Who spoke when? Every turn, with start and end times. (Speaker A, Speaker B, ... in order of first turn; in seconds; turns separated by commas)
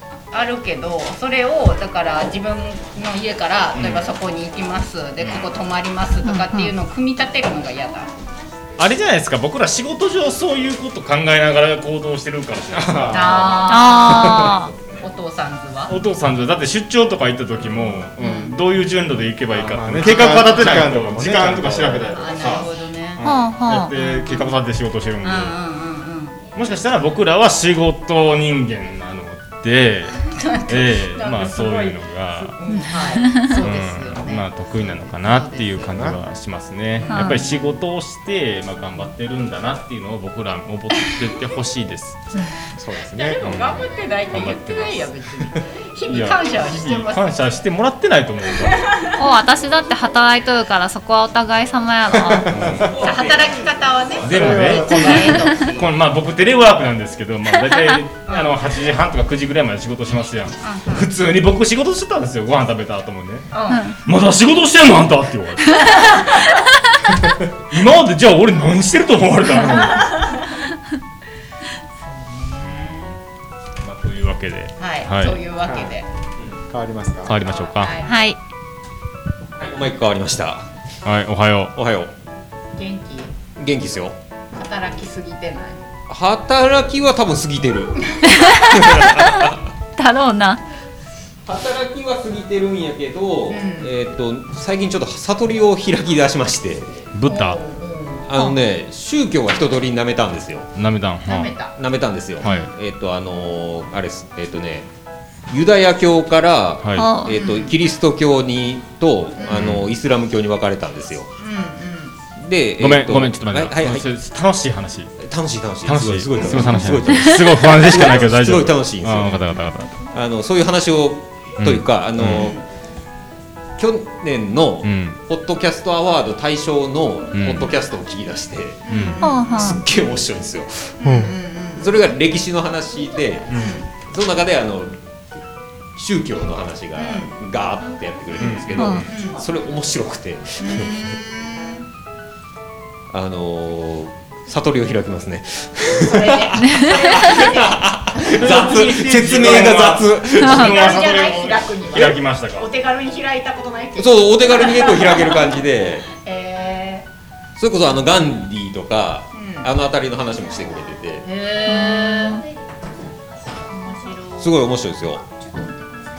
Speaker A: 0.3-8.1, Speaker B: 3.7-4.1, Speaker B: 5.2-5.5, Speaker C: 6.2-6.7, Speaker B: 8.8-14.4, Speaker D: 12.8-13.4, Speaker A: 13.1-16.0, Speaker C: 13.7-14.7, Speaker D: 14.2-14.5, Speaker B: 15.9-25.6, Speaker A: 18.2-18.6, Speaker D: 19.5-22.6, Speaker A: 20.0-20.8, Speaker A: 22.1-23.3, Speaker C: 23.2-23.9, Speaker A: 24.0-24.6, Speaker A: 25.2-26.4, Speaker B: 26.5-32.6, Speaker A: 30.2-32.0, Speaker A: 32.5-35.9, Speaker C: 32.7-33.5, Speaker B: 33.4-42.2, Speaker D: 35.8-36.2, Speaker A: 37.0-37.7, Speaker C: 37.1-37.5, Speaker D: 42.7-43.7, Speaker A: 43.1-47.4, Speaker B: 43.4-45.1, Speaker B: 46.1-48.9, Speaker A: 48.6-49.2, Speaker C: 49.2-52.5, Speaker D: 52.1-53.0, Speaker B: 52.5-52.9, Speaker E: 52.7-54.0, Speaker A: 52.9-55.9, Speaker B: 54.2-63.5, Speaker D: 54.2-55.7, Speaker A: 58.3-58.5, Speaker A: 60.6-61.1, Speaker A: 63.5-63.9, Speaker C: 63.7-64.0, Speaker B: 64.0-66.2, Speaker A: 66.0-66.4, Speaker B: 67.7-70.1, Speaker A: 69.8-70.5, Speaker A: 72.0-73.1, Speaker B: 72.7-73.2, Speaker B: 73.8-75.4, Speaker A: 74.8-76.1, Speaker D: 75.6-75.9, Speaker D: 76.7-77.4, Speaker B: 77.2-78.0, Speaker A: 77.4-78.3, Speaker C: 78.0-78.4, Speaker E: 79.6-80.7, Speaker B: 81.0-81.8, Speaker E: 81.8-82.1, Speaker A: 82.8-83.3, Speaker E: 83.6-84.2, Speaker A: 84.5-85.9, Speaker E: 86.1-89.6, Speaker A: 88.0-88.4, Speaker C: 88.3-90.6, Speaker E: 91.5-97.1, Speaker A: 93.5-93.9, Speaker B: 97.1-97.6, Speaker A: 97.2-98.5, Speaker E: 98.3-100.7, Speaker B: 100.7-101.5, Speaker A: 101.2-101.7, Speaker E: 101.8-104.9, Speaker A: 102.4-102.7, Speaker B: 102.4-102.7, Speaker E: 105.5-111.3, Speaker B: 106.8-107.1, Speaker C: 107.0-107.4, Speaker A: 107.2-107.7, Speaker A: 109.4-109.7, Speaker B: 109.5-109.9, Speaker A: 111.4-112.2, Speaker E: 112.3-114.1, Speaker B: 112.8-115.1, Speaker E: 115.2-119.4, Speaker B: 115.8-119.9, Speaker E: 120.1-122.6, Speaker B: 121.6-122.5, Speaker A: 122.3-122.6, Speaker E: 123.8-128.9, Speaker B: 124.8-125.2, Speaker B: 127.3-127.7, Speaker A: 128.8-129.8, Speaker B: 128.9-129.2, Speaker C: 129.2-129.8, Speaker E: 129.5-131.2, Speaker A: 131.0-132.0, Speaker D: 131.0-131.3, Speaker E: 131.7-135.0, Speaker B: 133.5-133.8, Speaker A: 133.6-133.8, Speaker E: 135.9-141.0, Speaker A: 136.9-137.3, Speaker B: 138.4-139.1, Speaker C: 138.7-139.1, Speaker A: 139.1-139.4, Speaker A: 140.6-141.8, Speaker E: 143.1-150.8, Speaker A: 146.0-148.6, Speaker C: 146.6-147.1, Speaker B: 148.2-152.7, Speaker C: 150.4-150.7, Speaker A: 150.5-155.6, Speaker E: 154.0-156.1, Speaker A: 156.1-157.1, Speaker E: 157.6-161.2, Speaker A: 159.3-159.7, Speaker A: 161.2-162.4, Speaker C: 161.7-162.4, Speaker A: 163.7-164.5, Speaker E: 164.4-165.2